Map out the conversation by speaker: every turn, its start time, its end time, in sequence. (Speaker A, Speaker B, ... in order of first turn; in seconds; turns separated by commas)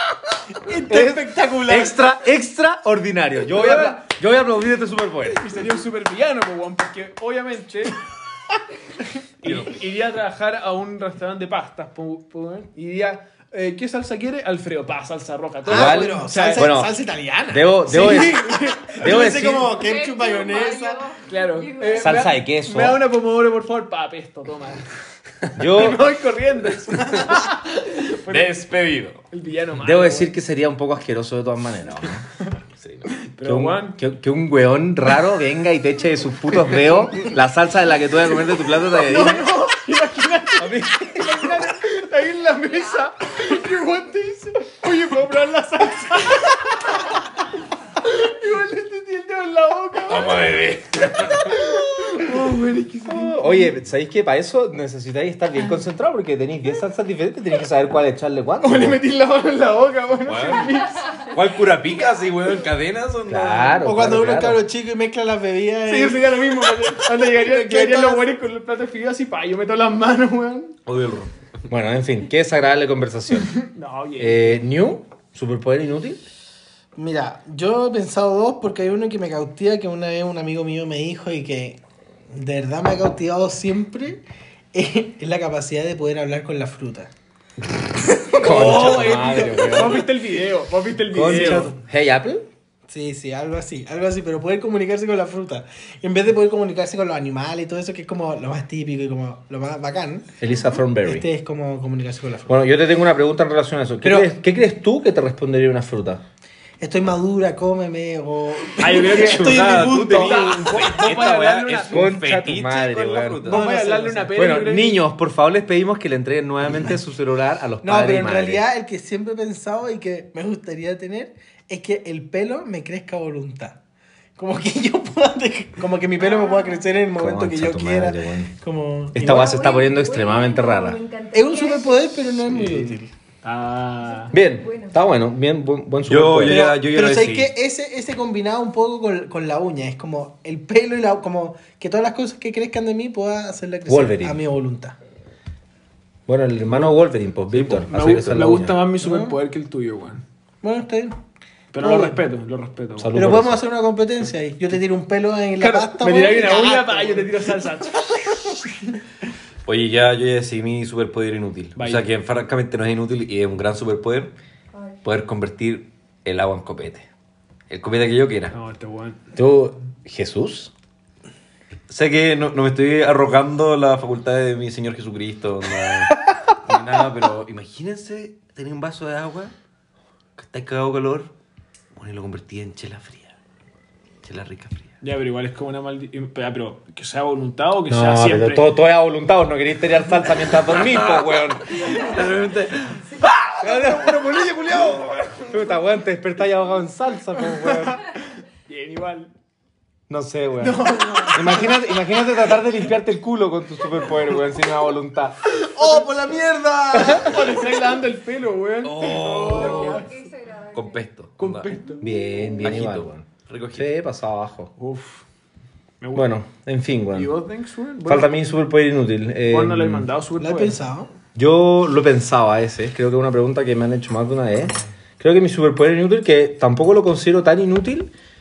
Speaker A: 0.7-2.0, Speaker B: 0.9-5.4, Speaker C: 3.5-4.1, Speaker C: 5.3-8.0, Speaker C: 9.4-16.7, Speaker D: 9.4-9.8, Speaker A: 15.6-21.1, Speaker B: 15.7-16.9, Speaker B: 17.5-18.4, Speaker C: 17.9-19.3, Speaker B: 19.0-19.7, Speaker E: 19.7-22.2, Speaker C: 21.2-24.9, Speaker B: 21.9-23.0, Speaker B: 25.6-26.1, Speaker C: 25.7-28.6, Speaker D: 28.3-29.2, Speaker C: 29.3-30.3, Speaker B: 29.8-32.2, Speaker D: 32.8-33.1, Speaker C: 33.2-34.0, Speaker B: 33.4-39.5, Speaker C: 39.0-47.1, Speaker B: 40.6-41.5, Speaker C: 48.0-50.6, Speaker D: 50.1-51.6, Speaker C: 51.1-53.7, Speaker B: 53.1-59.0, Speaker C: 58.6-61.3, Speaker D: 60.2-63.8, Speaker B: 63.3-64.6, Speaker A: 63.8-68.3, Speaker C: 65.8-70.8, Speaker D: 70.8-71.3, Speaker B: 71.7-73.6, Speaker C: 73.6-74.6, Speaker B: 74.2-76.2, Speaker A: 76.9-81.8, Speaker A: 82.3-84.2, Speaker A: 84.7-87.1, Speaker A: 88.1-90.0, Speaker B: 88.4-90.1, Speaker C: 88.4-91.8, Speaker B: 91.1-92.5, Speaker A: 91.2-91.7, Speaker A: 92.9-100.3, Speaker B: 100.4-101.3, Speaker A: 101.0-102.5, Speaker B: 102.5-106.2, Speaker A: 104.0-104.3, Speaker A: 106.8-110.9, Speaker C: 108.8-112.0, Speaker D: 108.8-113.7, Speaker B: 111.9-113.6, Speaker C: 113.4-115.0, Speaker A: 113.5-114.3, Speaker B: 114.3-118.6, Speaker A: 117.8-123.8, Speaker A: 124.4-129.6, Speaker E: 126.2-127.0, Speaker B: 127.1-128.5, Speaker B: 129.1-131.0, Speaker E: 129.2-132.3, Speaker A: 131.3-133.1, Speaker D: 132.4-133.0, Speaker C: 133.4-134.3, Speaker E: 134.0-135.0, Speaker B: 134.3-136.7, Speaker D: 136.1-137.5, Speaker A: 136.4-144.9, Speaker B: 143.9-144.4, Speaker B: 146.3-148.8, Speaker C: 147.5-150.2, Speaker A: 148.9-149.4, Speaker A: 150.6-151.2, Speaker C: 151.7-153.2, Speaker A: 151.8-152.2, Speaker B: 153.0-153.6, Speaker A: 153.1-157.4, Speaker C: 155.6-158.7, Speaker D: 159.6-164.3, Speaker C: 161.8-162.1, Speaker D: 165.0-167.1, Speaker D: 167.7-168.5, Speaker C: 168.5-169.2, Speaker B: 169.3-170.7, Speaker D: 171.9-179.5, Speaker D: 180.3-181.3, Speaker D: 181.9-183.3, Speaker D: 184.2-184.9, Speaker C: 185.0-188.7, Speaker B: 187.9-191.8, Speaker D: 190.4-195.5, Speaker B: 193.7-194.0, Speaker B: 195.4-198.0, Speaker C: 198.7-199.3, Speaker B: 200.1-200.8, Speaker A: 200.6-201.8, Speaker B: 201.3-205.3, Speaker A: 205.5-207.7, Speaker C: 205.8-206.3, Speaker C: 206.9-210.1, Speaker D: 208.8-210.1, Speaker E: 209.1-211.1, Speaker D: 210.7-211.7, Speaker C: 211.4-212.1, Speaker B: 212.0-214.7, Speaker D: 212.6-213.9, Speaker C: 214.8-215.2, Speaker C: 216.0-216.3, Speaker B: 216.1-217.3, Speaker C: 217.1-218.3, Speaker B: 218.1-220.1, Speaker C: 219.5-220.8, Speaker A: 220.4-221.1, Speaker B: 221.3-228.1